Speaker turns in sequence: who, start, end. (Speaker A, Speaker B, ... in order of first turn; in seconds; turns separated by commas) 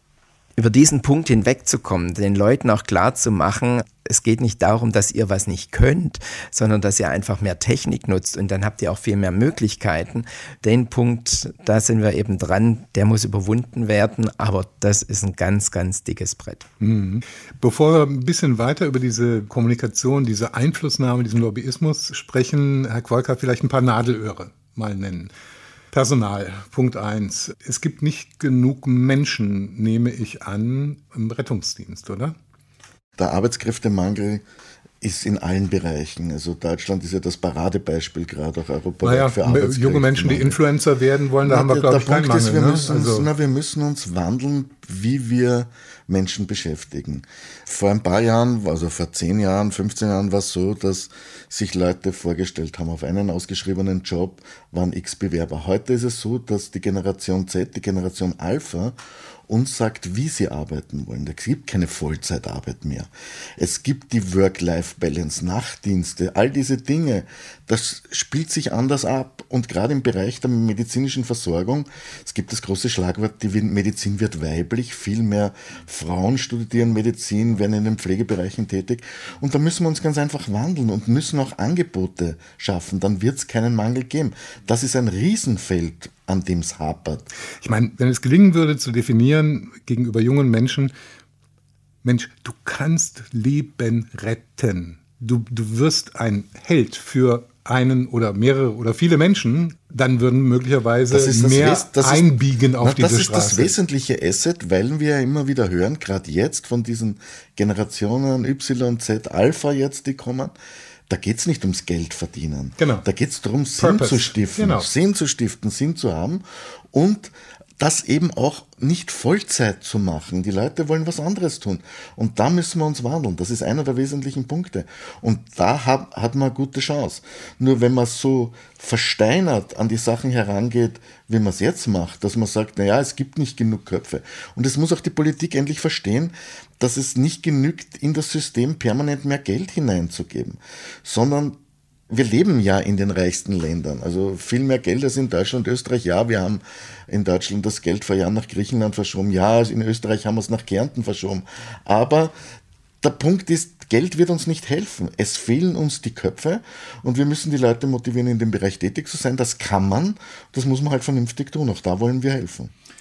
Speaker A: 0.6-16.7, Speaker B: 16.8-25.3, Speaker B: 25.9-32.4, Speaker C: 33.2-34.4, Speaker C: 35.0-40.6, Speaker B: 39.0-43.3, Speaker C: 41.5-59.0, Speaker C: 59.5-87.3, Speaker B: 87.6-90.9, Speaker B: 92.0-103.7, Speaker C: 101.1-102.3, Speaker C: 102.8-110.5, Speaker C: 111.1-152.3, Speaker B: 112.8-113.1, Speaker B: 113.8-114.9, Speaker C: 153.0-162.7